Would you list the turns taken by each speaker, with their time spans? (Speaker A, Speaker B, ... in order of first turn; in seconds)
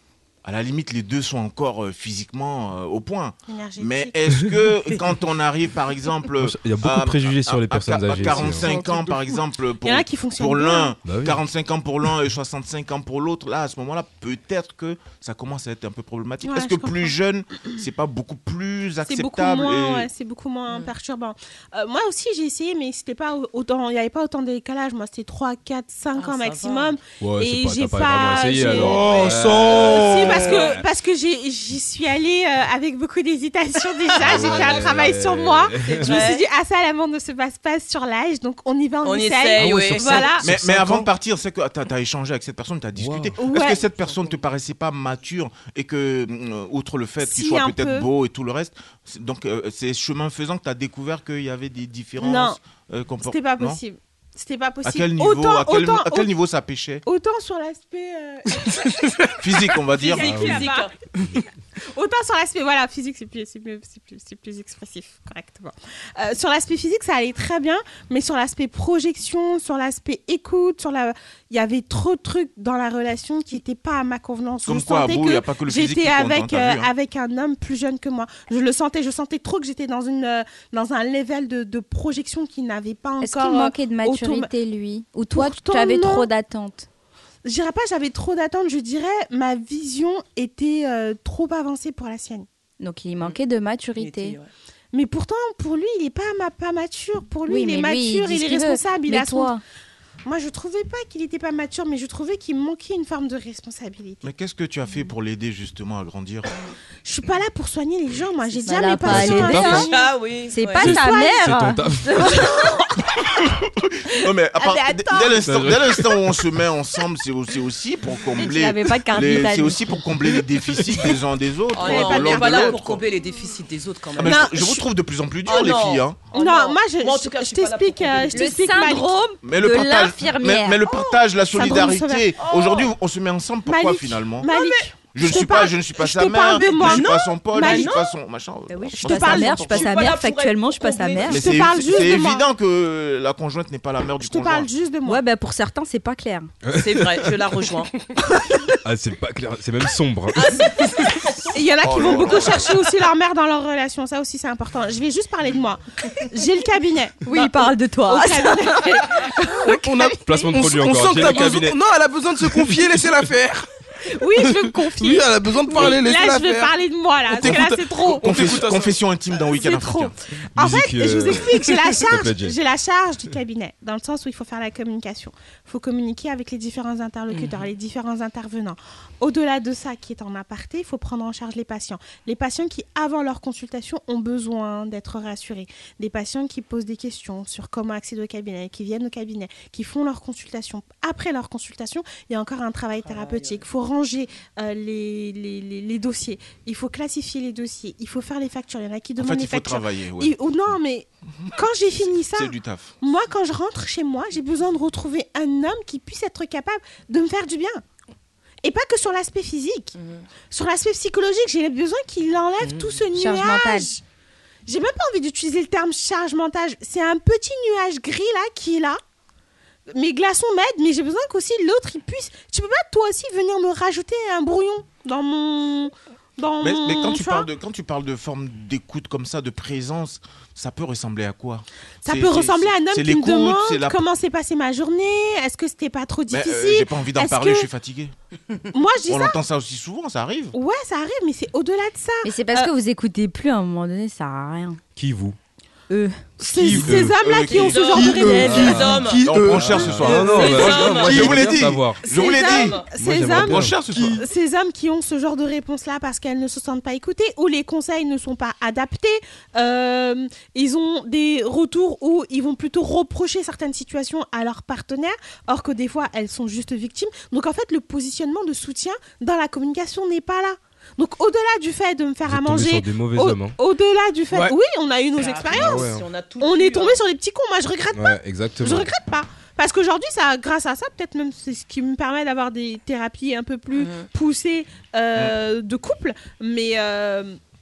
Speaker A: 0.4-20.1, 34.3-34.9, 40.4-53.8, 54.8-57.0, 59.4-60.5, 74.6-76.9, 104.2-106.5, 114.2-123.0, 124.2-126.3, 129.4-134.5, 135.1-139.9, 141.3-144.7, 151.8-152.7, 167.4-170.1, 199.2-200.3, 202.3-202.9, 226.6-234.0, 236.3-238.1, 239.1-240.5, 246.7-254.2
Speaker B: 3.5-4.2, 9.8-10.9, 16.4-17.2, 19.0-40.6, 43.4-43.8, 47.2-48.1, 52.2-52.6, 53.2-56.3, 57.0-58.9, 60.0-60.9, 61.9-84.5, 85.3-86.3, 87.4-92.5, 94.9-99.5, 100.2-104.3, 107.0-110.1, 110.8-111.5, 112.3-112.8, 114.6-115.4, 121.7-122.8, 124.2-124.8, 126.3-129.2, 131.5-132.4, 133.7-138.1, 139.0-139.7, 141.3-142.4, 144.2-145.2, 151.5-160.1, 164.1-168.6, 169.4-207.8, 208.6-209.9, 210.5-214.0, 214.7-219.0, 219.9-227.5, 232.0-237.7, 238.7-239.4, 240.5-242.7, 246.4-248.9, 250.1-251.2, 252.0-287.4
Speaker C: 6.3-8.7, 11.0-11.4, 27.2-30.8, 34.2-36.2, 39.6-41.1, 43.0-43.4, 60.2-60.6, 109.0-109.9, 110.8-112.3, 115.5-116.0, 146.6-147.3, 148.8-150.8, 160.2-161.8, 162.5-163.0, 170.5-172.6, 244.9-245.4, 246.4-247.2, 248.4-252.1, 252.9-254.1, 272.2-273.6, 275.5-276.0, 277.9-278.9
Speaker D: 8.4-9.4, 28.7-30.8, 159.7-163.7, 164.4-166.7, 167.4-169.0, 247.9-250.3
Speaker E: 26.1-27.0, 35.8-36.5, 39.0-40.4, 43.6-44.4, 59.9-61.0, 94.0-94.5, 109.9-110.9, 121.7-124.5, 125.4-128.5, 132.4-132.9, 134.4-134.9, 136.5-138.1, 138.7-141.7, 146.8-147.9, 150.3-152.6, 193.0-193.6, 212.6-213.0, 247.4-249.3, 250.0-252.9, 275.1-277.0, 283.7-284.1
Speaker F: 83.2-86.9, 92.8-94.4, 97.5-99.6, 108.6-109.9, 110.5-112.6, 118.4-119.8, 128.3-130.8, 138.9-141.5, 145.0-146.5, 157.2-159.8, 213.1-213.9, 242.2-244.8, 245.9-246.2